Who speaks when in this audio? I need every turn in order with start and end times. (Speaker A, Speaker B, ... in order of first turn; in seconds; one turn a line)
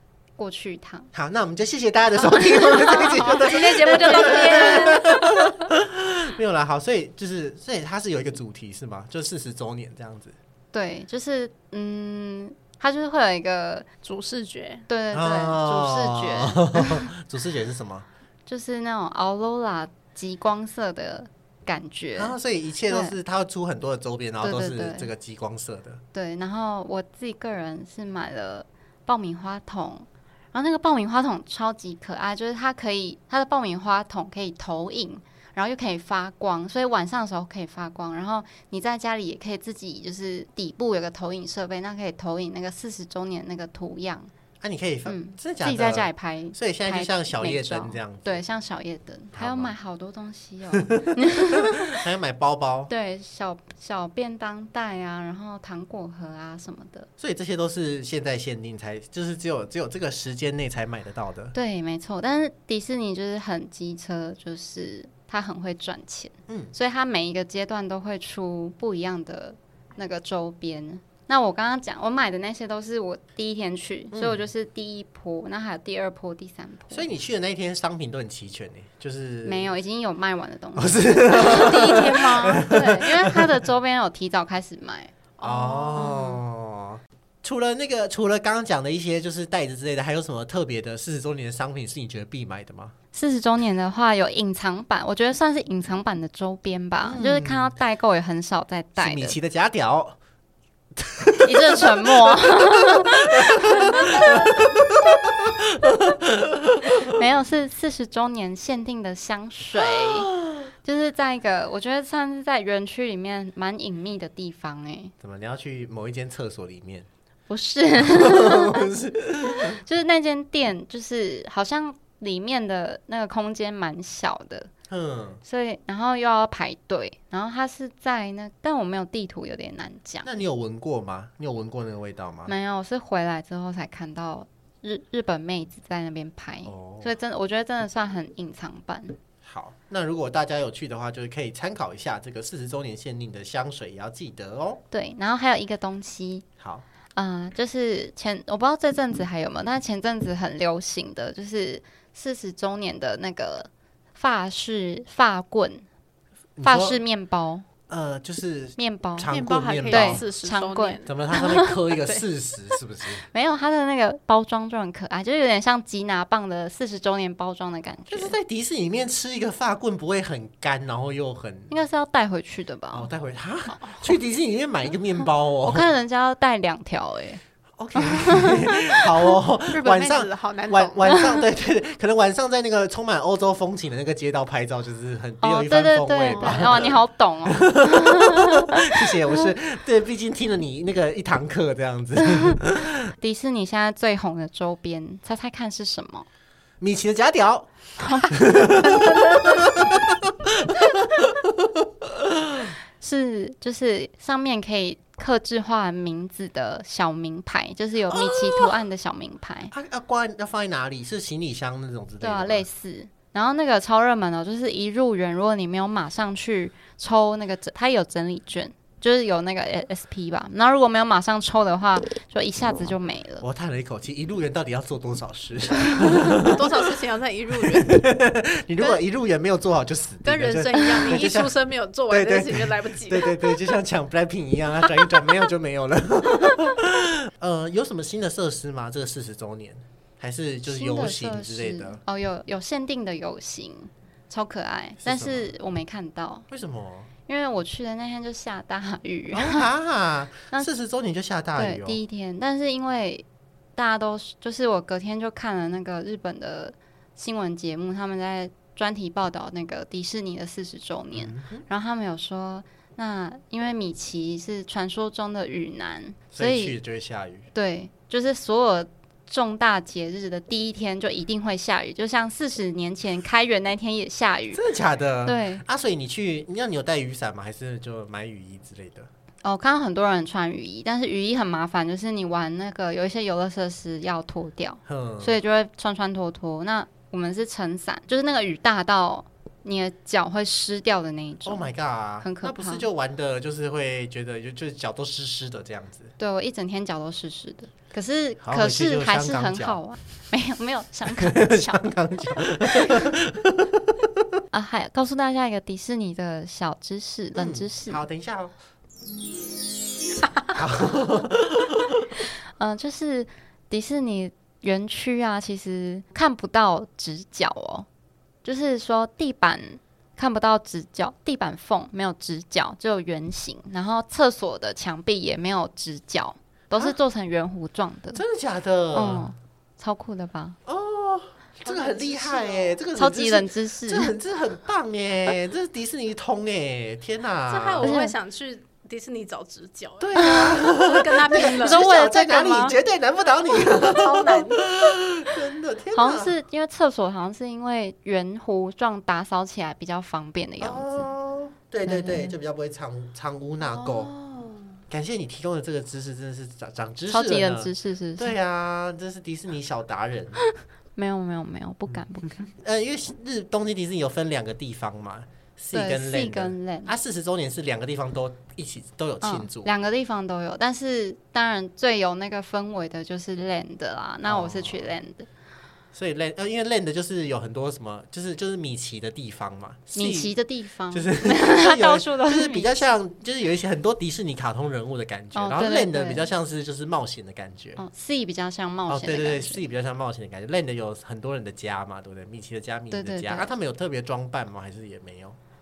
Speaker A: 0.4-1.1
Speaker B: 1.1-10.4
Speaker A: 2.3-5.0
Speaker C: 2.8-5.5
Speaker A: 10.7-13.9
Speaker C: 14.0-14.8
Speaker A: 14.9-17.1
Speaker B: 15.1-18.1
Speaker A: 18.5-22.4
Speaker B: 22.2-26.0
Speaker A: 22.9-23.1
Speaker A: 24.4-25.1
Speaker A: 26.1-44.3
Speaker B: 44.6-48.4
Speaker A: 45.0-52.0
Speaker B: 49.3-49.7
Speaker B: 50.8-52.9
Speaker A: 52.9-57.1
Speaker B: 57.2-61.5
Speaker A: 61.5-77.1
Speaker B: 66.5-66.7
Speaker B: 74.1-74.5
Speaker B: 76.9-79.7
Speaker A: 79.4-85.2
Speaker B: 80.8-83.5
Speaker C: 81.7-82.6
Speaker C: 85.4-86.3
Speaker B: 85.4-92.9
Speaker A: 85.9-86.2
Speaker A: 93.1-99.4
Speaker B: 97.0-97.7
Speaker B: 99.0-100.2
Speaker B: 101.0-107.2
Speaker A: 101.4-104.5
Speaker C: 103.8-104.6
Speaker A: 107.0-110.3
Speaker B: 109.8-110.7
Speaker A: 110.8-115.1
Speaker B: 115.2-117.1
Speaker A: 117.5-118.9
Speaker B: 118.0-119.8
Speaker A: 119.4-124.7
Speaker B: 124.9-125.4
Speaker A: 125.4-130.3
Speaker B: 130.2-132.5
Speaker A: 132.5-139.2
Speaker B: 136.6-137.1
Speaker B: 139.4-144.8
Speaker A: 144.9-146.4
Speaker B: 146.6-146.8
Speaker A: 147.2-155.8
Speaker B: 156.6-157.0
Speaker A: 156.6-157.6
Speaker B: 157.9-160.2
Speaker A: 158.8-159.3
Speaker C: 159.3-161.2
Speaker A: 159.9-161.7
Speaker B: 161.0-163.2
Speaker A: 163.3-168.3
Speaker B: 168.1-171.7
Speaker A: 171.7-173.1
Speaker B: 172.9-175.9
Speaker A: 175.6-177.4
Speaker B: 177.8-193.1
Speaker A: 177.9-179.0
Speaker C: 179.7-181.1
Speaker A: 185.4-189.4
Speaker C: 186.2-186.8
Speaker A: 192.2-192.6
Speaker A: 193.2-196.3
Speaker B: 196.8-202.7
Speaker A: 198.0-198.4
Speaker A: 203.0-209.7
Speaker B: 208.1-208.7
Speaker B: 209.7-212.7
Speaker A: 212.2-223.4
Speaker B: 223.4-226.9
Speaker C: 226.2-228.0
Speaker B: 227.5-231.6
Speaker C: 230.2-233.6
Speaker B: 232.1-242.0
Speaker A: 240.7-246.5
Speaker B: 245.0-245.5
Speaker B: 246.5-247.1
Speaker A: 247.3-249.7
Speaker B: 249.3-252.0
Speaker A: 251.6-253.2
Speaker A: 253.8-266.8
Speaker B: 261.1-261.6
Speaker B: 266.3-267.5
Speaker A: 267.5-274.6
Speaker B: 274.5-279.1
Speaker A: 275.2-275.6
Speaker A: 279.4-291.7
Speaker B: 284.9-285.4
Speaker B: 291.4-296.1
Speaker A: 292.2-292.8
Speaker A: 296.2-301.9
Speaker B: 298.4-299.8
Speaker B: 301.2-304.1
Speaker A: 302.4-303.1
Speaker A: 304.5-308.0
Speaker B: 307.4-308.5
Speaker B: 310.5-312.0
Speaker A: 312.6-317.9
Speaker A: 318.4-328.2
Speaker B: 328.1-329.3
Speaker A: 328.9-330.6
Speaker B: 330.6-338.0
Speaker C: 331.6-332.8
Speaker A: 332.9-334.1
Speaker C: 337.5-341.9
Speaker A: 337.8-338.1
Speaker B: 340.0-346.3
Speaker A: 340.2-340.6
Speaker A: 341.4-342.8
Speaker C: 343.5-344.9
Speaker A: 345.9-351.1
Speaker B: 350.6-354.1
Speaker A: 351.8-352.3
Speaker C: 353.6-354.8
Speaker B: 354.9-360.4
Speaker A: 357.1-358.4
Speaker A: 360.9-362.4
Speaker B: 362.4-369.7
Speaker A: 365.7-366.9
Speaker A: 369.2-375.3
Speaker B: 374.2-374.9
Speaker B: 375.9-380.3
Speaker A: 379.9-382.8
Speaker B: 380.9-387.8
Speaker A: 385.3-386.3
Speaker A: 387.8-389.6
Speaker B: 388.9-395.4
Speaker A: 392.9-393.5